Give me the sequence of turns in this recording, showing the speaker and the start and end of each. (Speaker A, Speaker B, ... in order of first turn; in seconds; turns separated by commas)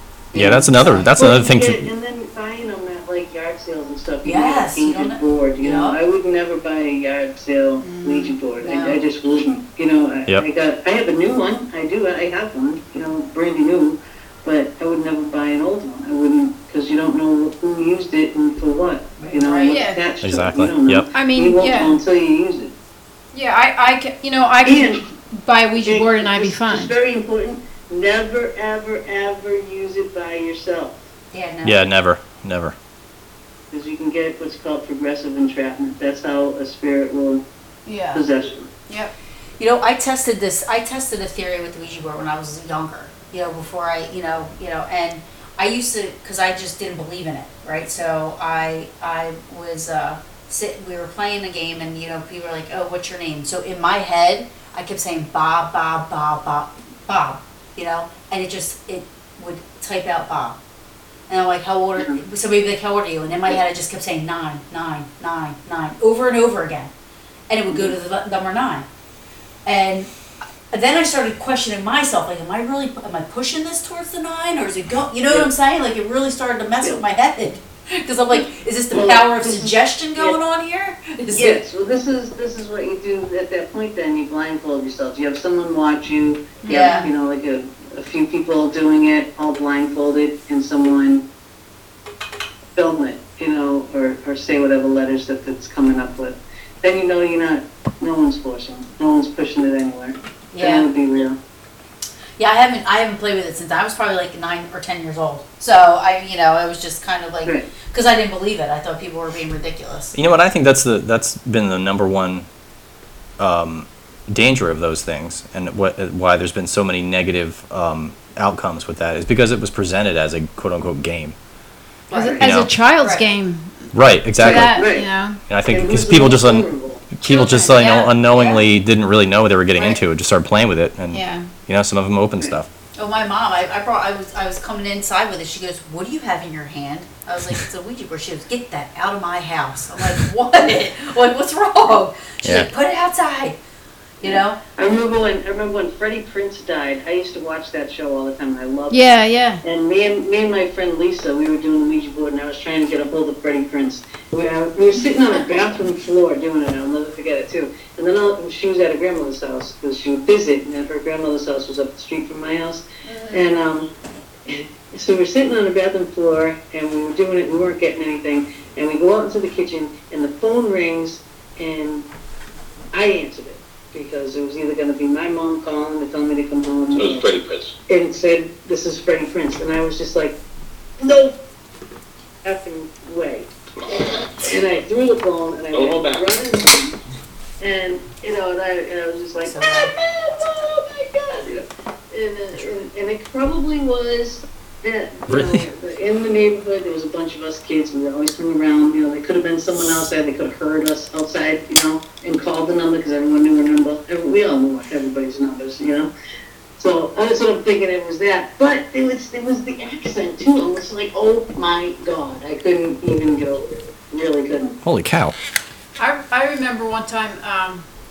Speaker A: 0.3-1.2, Speaker B: 0.3-1.9, Speaker C: 1.1-22.7, Speaker A: 4.2-6.0, Speaker D: 7.8-8.3, Speaker A: 8.6-9.0, Speaker A: 19.2-19.9, Speaker D: 19.7-20.0, Speaker B: 20.2-21.1, Speaker D: 21.1-22.0, Speaker D: 23.3-26.9, Speaker C: 24.6-25.0, Speaker C: 25.8-31.0, Speaker A: 31.3-31.8, Speaker B: 31.6-32.7, Speaker C: 33.7-37.4, Speaker D: 37.9-38.2, Speaker C: 38.1-38.7, Speaker A: 39.6-60.6, Speaker A: 61.3-66.9, Speaker A: 67.5-68.8, Speaker C: 67.7-67.9, Speaker A: 69.7-70.1, Speaker A: 70.7-81.6, Speaker C: 78.3-80.4, Speaker C: 81.3-91.2, Speaker D: 86.6-87.1, Speaker A: 86.7-87.1, Speaker C: 92.7-101.4, Speaker A: 100.5-100.9, Speaker A: 102.4-110.2, Speaker C: 107.4-107.7, Speaker B: 110.1-112.5, Speaker B: 113.4-121.3, Speaker C: 122.1-122.4, Speaker D: 122.1-125.4, Speaker B: 122.4-122.7, Speaker B: 123.9-124.8, Speaker C: 124.4-125.1, Speaker B: 125.5-132.7, Speaker C: 125.7-127.1, Speaker D: 127.3-128.2, Speaker A: 128.3-128.6, Speaker D: 131.1-131.5, Speaker A: 132.9-143.6, Speaker A: 144.2-144.6, Speaker C: 144.2-149.1, Speaker D: 148.9-149.6, Speaker C: 149.6-163.9, Speaker D: 163.0-163.4, Speaker C: 164.5-172.1, Speaker C: 172.9-177.3, Speaker E: 176.9-177.8, Speaker C: 177.9-180.4, Speaker C: 181.0-181.3, Speaker C: 182.4-187.0, Speaker E: 183.9-184.6, Speaker E: 185.7-186.3, Speaker C: 187.6-206.1, Speaker A: 189.4-189.9, Speaker B: 195.3-195.7, Speaker C: 206.8-214.8, Speaker B: 214.8-215.3, Speaker D: 216.0-217.8